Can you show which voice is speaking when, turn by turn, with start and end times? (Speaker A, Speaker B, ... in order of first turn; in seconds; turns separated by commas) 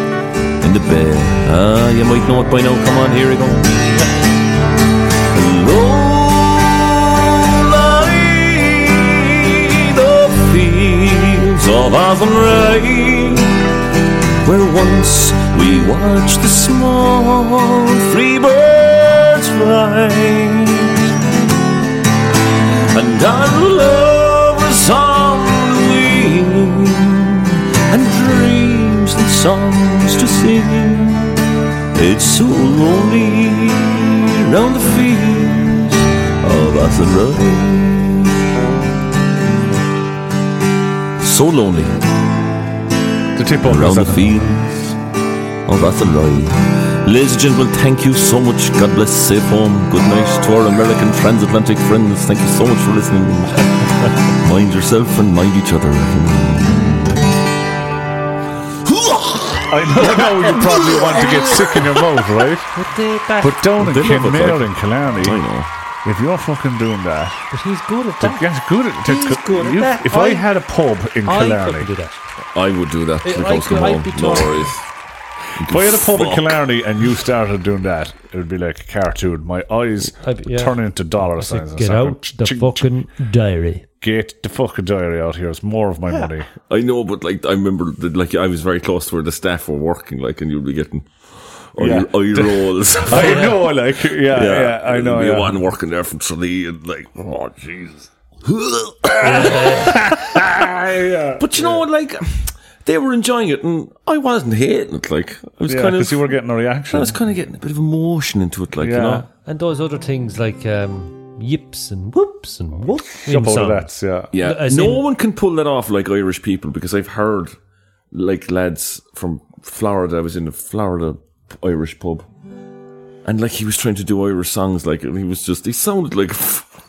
Speaker A: 0.6-3.9, Speaker A: 5.3-13.7, Speaker A: 14.4-21.0, Speaker A: 22.9-38.4, Speaker A: 41.2-41.9, Speaker B: 43.3-44.5, Speaker A: 43.6-45.0, Speaker A: 45.7-57.2, Speaker A: 58.9-62.0, Speaker B: 59.7-62.7, Speaker C: 62.7-63.6, Speaker B: 63.4-65.4, Speaker A: 63.8-65.7, Speaker B: 66.0-67.5, Speaker C: 67.5-68.5, Speaker B: 68.2-71.9, Speaker C: 69.0-70.5, Speaker C: 71.2-72.2, Speaker A: 72.5-74.8, Speaker C: 73.2-74.7, Speaker B: 75.6-82.9, Speaker A: 75.6-76.6, Speaker C: 80.2-80.8, Speaker C: 81.3-83.9, Speaker B: 84.0-86.5, Speaker A: 86.7-100.7, Speaker B: 91.8-95.6, Speaker C: 93.1-93.5, Speaker C: 99.2-100.0, Speaker B: 99.2-101.5, Speaker A: 101.4-106.3, Speaker B: 105.7-107.2, Speaker A: 106.9-109.3, Speaker B: 108.8-109.3, Speaker C: 109.5-115.1, Speaker B: 113.0-114.3, Speaker A: 114.3-117.6, Speaker A: 118.1-122.3, Speaker A: 123.2-126.7